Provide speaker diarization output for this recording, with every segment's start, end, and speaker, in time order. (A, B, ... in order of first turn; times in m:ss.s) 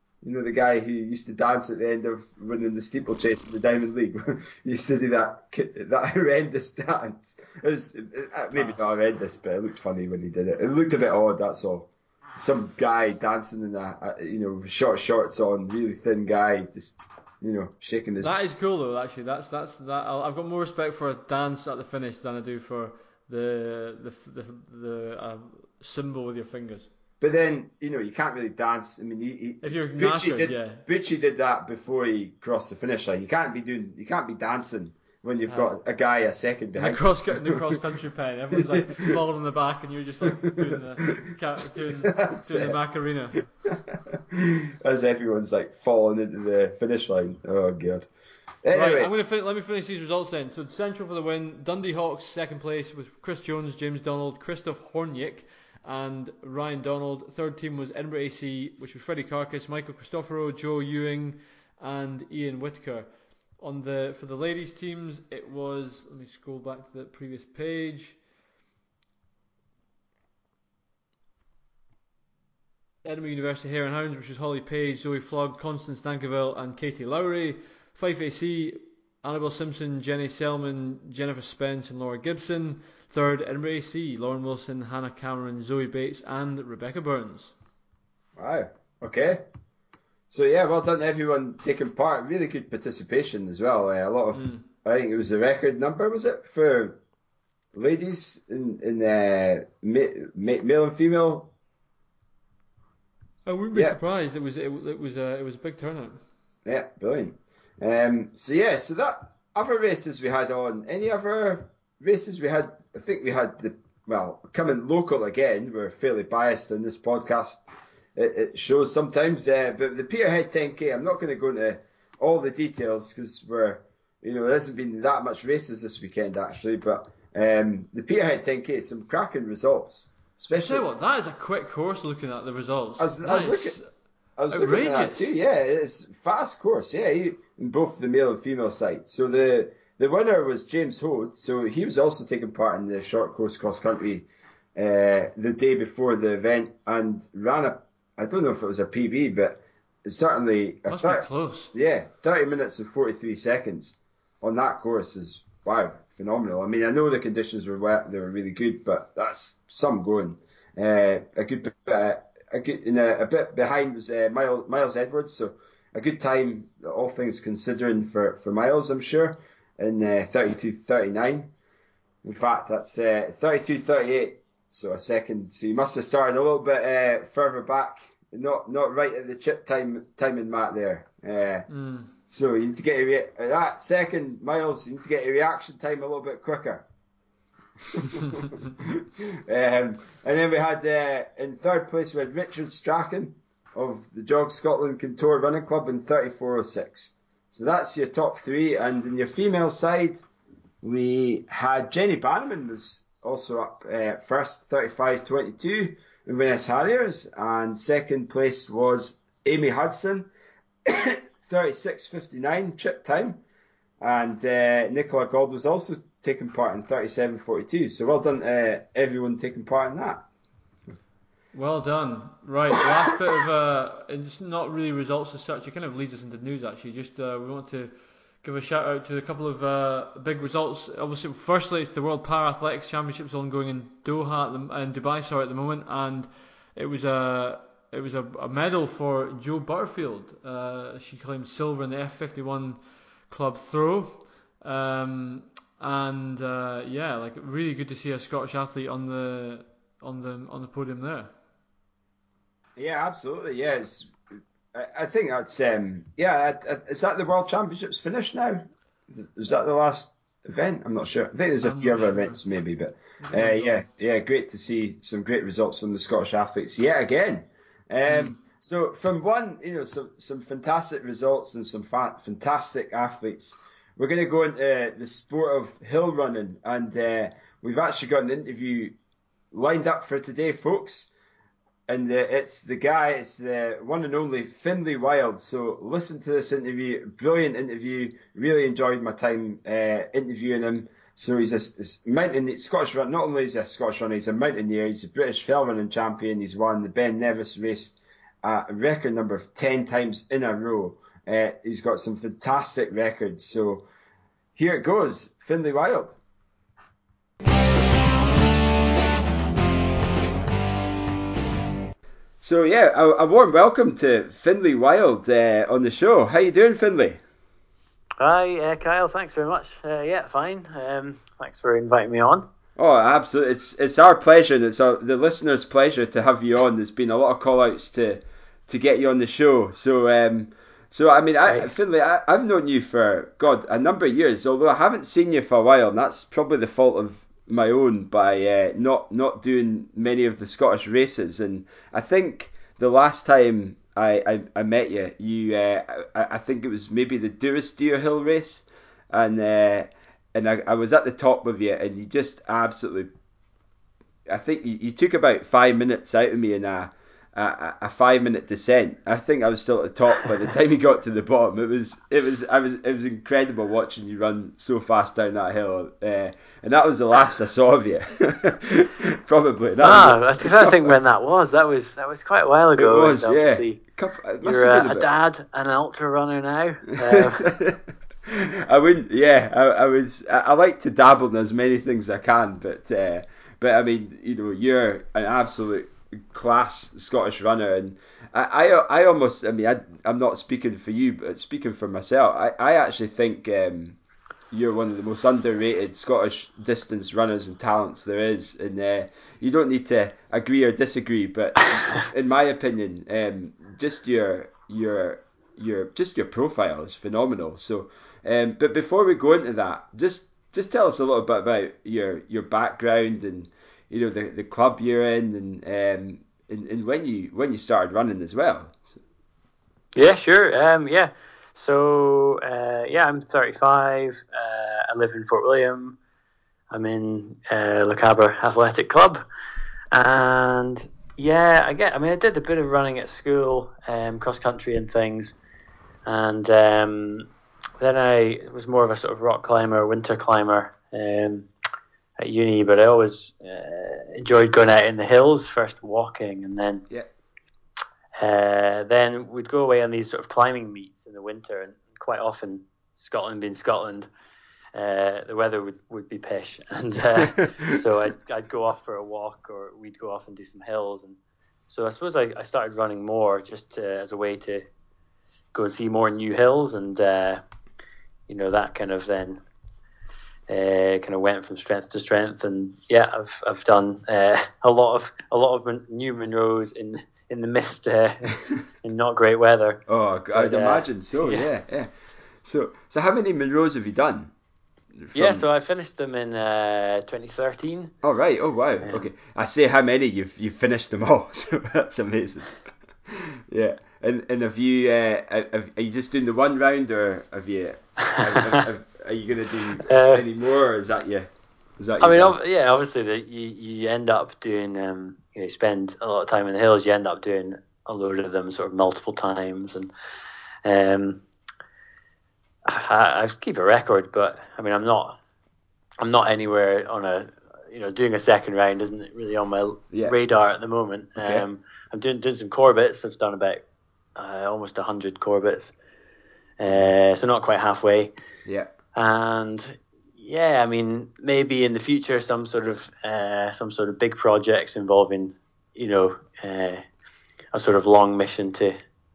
0:00.2-0:18.3 A
0:08.5-0:08.9 B
0:18.2-0:26.9 B
0:27.2-0:37.8 A
0:29.6-0:30.8 B
0:35.5-0:35.7 B
0:36.8-0:43.4 B
0:38.5-0:39.2 A
0:40.2-0:42.8 A
0:43.6-0:48.1 A
0:48.6-0:49.1 A
0:48.7-1:03.1 B
1:03.6-1:08.2 B
1:13.0-1:27.6 B
1:28.4-1:29.4 A
1:30.3-1:37.0 A
1:34.3-1:34.6 B
1:37.7-1:41.5 A
1:43.4-1:46.2 B
1:43.7-1:44.0 A
1:46.6-1:57.6 A
1:58.1-2:10.8 A
2:10.5-2:13.9 B
2:13.0-2:13.8 A
2:14.4-2:51.5 A
2:14.5-2:15.3 B
2:30.9-2:31.7 B
2:52.2-3:01.7 A
3:01.7-3:02.1 B
3:02.3-3:06.8 A
3:07.9-3:20.2 A
3:20.8-3:30.3 A
3:30.8-3:33.4 A
3:34.0-3:40.3 A
3:41.5-4:11.3 B
4:12.8-4:14.1 A
4:14.7-4:39.0 A
4:21.6-4:22.4 B
4:23.2-4:23.8 B
4:28.1-4:28.3 B
4:39.5-4:41.1 A
4:41.9-5:03.8 A
5:04.6-5:06.2 A
5:12.4-5:17.2 A
5:18.2-5:22.5 C
5:22.8-5:53.1 A
5:54.3-6:11.0 A
6:09.8-6:13.8 C
6:12.8-6:15.1 A
6:14.4-6:17.5 C
6:17.0-6:34.0 A
6:34.5-6:59.0 A
6:59.9-7:06.0 C
7:06.7-7:09.2 C
7:09.9-7:15.3 C
7:16.0-7:17.3 C
7:17.8-7:21.5 C
7:22.2-7:26.8 C
7:28.2-7:34.1 C
7:34.7-7:41.2 C
7:37.2-7:37.8 A
7:41.7-7:44.6 C
7:45.5-7:47.4 C
7:48.3-7:49.4 C
7:50.5-7:59.8 C
7:59.9-8:01.9 A
8:00.3-8:01.5 C
8:02.4-8:04.3 A
8:04.9-8:05.4 A
8:05.1-8:07.9 C
8:08.0-8:12.5 A
8:08.8-8:09.1 C
8:13.0-8:21.3 A
8:18.0-8:18.6 C
8:19.8-8:20.3 C
8:21.8-8:22.3 A
8:22.0-8:29.9 C
8:30.6-8:31.2 C
8:32.6-8:35.2 C
8:36.0-8:43.6 C
8:41.2-8:41.4 A
8:44.2-8:45.7 C
8:46.6-8:48.1 C
8:46.7-8:46.9 A
8:48.4-8:48.7 A
8:48.9-8:56.8 C
8:57.5-8:58.7 C